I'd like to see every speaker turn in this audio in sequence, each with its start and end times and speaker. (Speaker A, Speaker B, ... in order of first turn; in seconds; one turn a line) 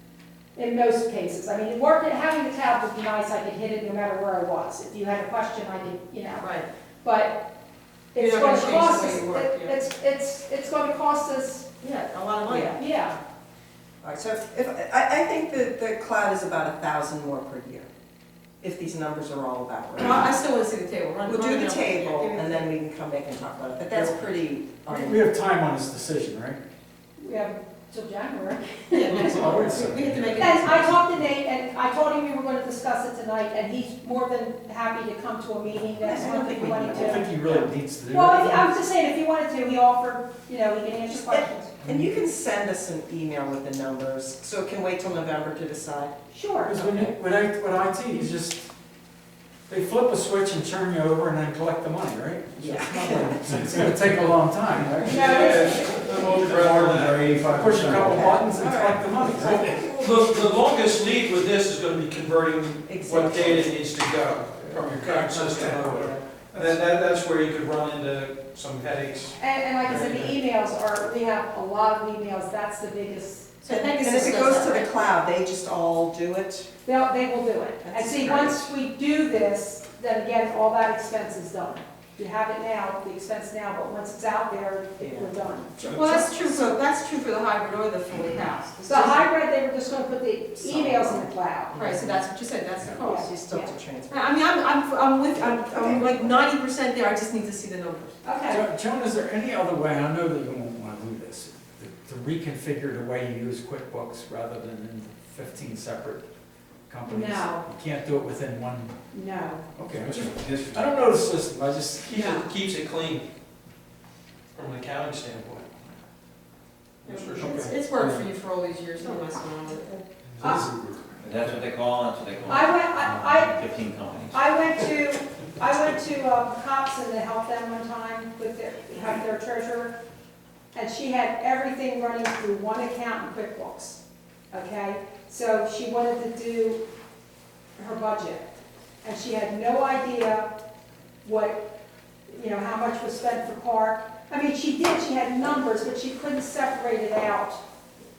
Speaker A: 0.6-6.5
Speaker B: 6.4-6.7
Speaker A: 7.0-7.4
Speaker A: 8.1-11.7
Speaker B: 8.2-9.8
Speaker B: 11.8-12.8
Speaker C: 12.4-12.8
Speaker A: 12.7-13.2
Speaker C: 14.0-17.9
Speaker C: 18.6-20.3
Speaker B: 19.9-22.7
Speaker C: 21.2-25.2
Speaker D: 24.9-26.6
Speaker A: 27.2-29.6
Speaker B: 28.9-30.9
Speaker D: 29.2-31.0
Speaker A: 30.4-37.3
Speaker C: 36.0-37.2
Speaker D: 36.9-38.7
Speaker A: 38.1-41.7
Speaker C: 41.1-46.1
Speaker A: 46.3-46.7
Speaker D: 46.6-48.7
Speaker C: 46.8-47.1
Speaker D: 49.7-55.6
Speaker C: 52.6-54.0
Speaker E: 55.0-58.3
Speaker A: 55.0-56.2
Speaker D: 56.4-59.8
Speaker C: 57.9-60.0
Speaker E: 59.3-70.3
Speaker C: 62.8-63.7
Speaker C: 64.7-66.2
Speaker D: 65.1-66.1
Speaker A: 69.4-73.7
Speaker B: 73.6-75.1
Speaker C: 73.7-76.7
Speaker A: 76.8-85.8
Speaker C: 77.8-78.6
Speaker C: 85.0-86.8
Speaker B: 85.8-89.3
Speaker A: 88.8-91.7
Speaker C: 90.6-92.2
Speaker B: 91.7-98.2
Speaker A: 93.0-93.6
Speaker C: 93.0-94.4
Speaker C: 95.3-96.5
Speaker A: 98.2-98.7
Speaker D: 98.5-106.2
Speaker D: 106.9-108.9
Speaker A: 107.0-107.6
Speaker A: 109.1-109.6
Speaker D: 109.8-112.5
Speaker E: 109.9-110.9
Speaker A: 112.1-112.5
Speaker E: 112.4-113.2
Speaker E: 114.5-115.7
Speaker E: 117.0-117.8
Speaker B: 117.0-120.0
Speaker D: 117.4-117.7
Speaker E: 120.3-121.6
Speaker A: 120.4-120.7
Speaker F: 121.2-124.4
Speaker A: 122.5-123.6
Speaker A: 124.3-130.0
Speaker A: 130.7-134.0
Speaker A: 134.5-136.8
Speaker A: 137.8-140.5
Speaker A: 141.2-141.6
Speaker A: 142.3-147.6